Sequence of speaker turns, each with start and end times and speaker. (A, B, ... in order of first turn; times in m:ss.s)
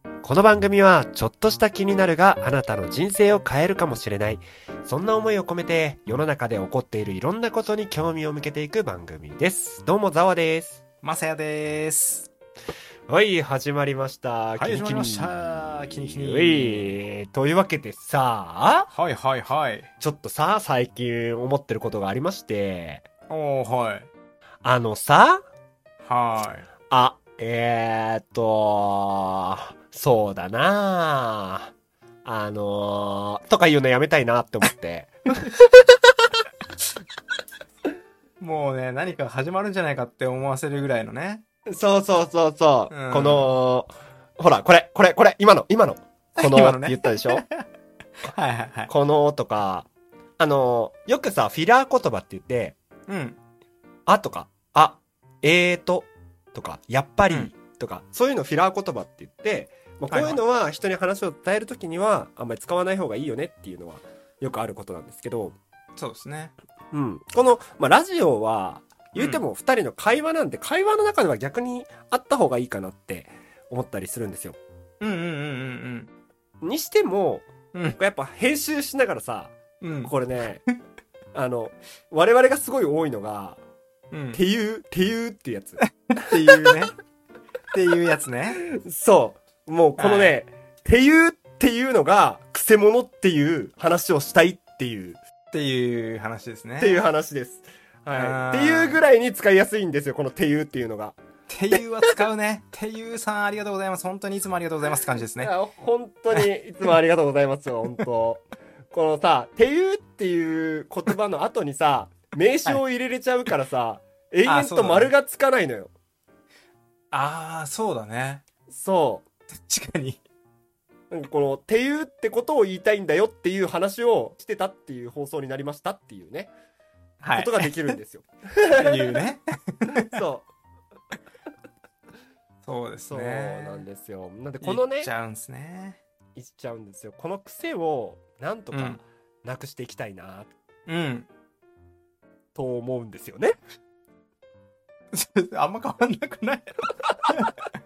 0:00.2-0:10.8 A
0:11.0-0:12.3 B
0:13.1-0:15.3 A
0:14.6-0:17.0 B
0:16.1-0:18.9 A
0:18.9-0:19.9 B
0:20.0-0:23.0 A
0:23.3-0:24.1 B
0:24.6-0:25.4 A
0:26.0-0:26.7 B
0:26.9-0:31.7 A
0:32.2-0:36.3 A
0:38.4-0:41.4 B
0:41.7-0:47.4 A
0:42.9-0:43.5 B
0:46.4-0:47.7 B
0:48.2-0:48.9 B
0:48.9-0:49.9 A
0:50.4-0:52.8 A
0:53.1-0:53.4 B
0:54.1-1:05.6 A
1:00.1-1:00.4 B
1:06.0-1:06.5 B
1:06.9-1:14.6 A
1:09.2-1:09.4 B
1:15.0-1:16.1 B
1:16.6-1:20.6 A
1:19.8-1:20.1 B
1:21.3-1:23.6 A
1:24.1-1:24.4 B
1:24.3-1:25.8 A
1:25.8-1:27.0 B
1:27.7-1:28.6 B
1:28.7-1:35.2 A
1:30.0-1:30.4 B
1:35.5-1:37.0 B
1:36.8-1:41.2 A
1:38.1-1:39.0 B
1:41.5-1:45.5 B
1:45.4-1:55.9 A
1:54.4-1:55.1 B
1:57.1-1:58.4 B
1:58.7-1:59.3 A
1:59.6-2:00.2 B
2:01.1-2:06.5 A
2:07.2-2:08.0 B
2:07.3-2:09.2 A
2:08.8-2:10.1 B
2:10.0-2:10.5 A
2:12.6-2:13.9 B
2:13.0-2:15.1 A
2:14.6-2:16.0 B
2:16.4-2:20.5 A
2:18.7-2:19.0 B
2:20.9-2:21.3 B
2:22.6-2:23.6 A
2:25.1-2:27.5 B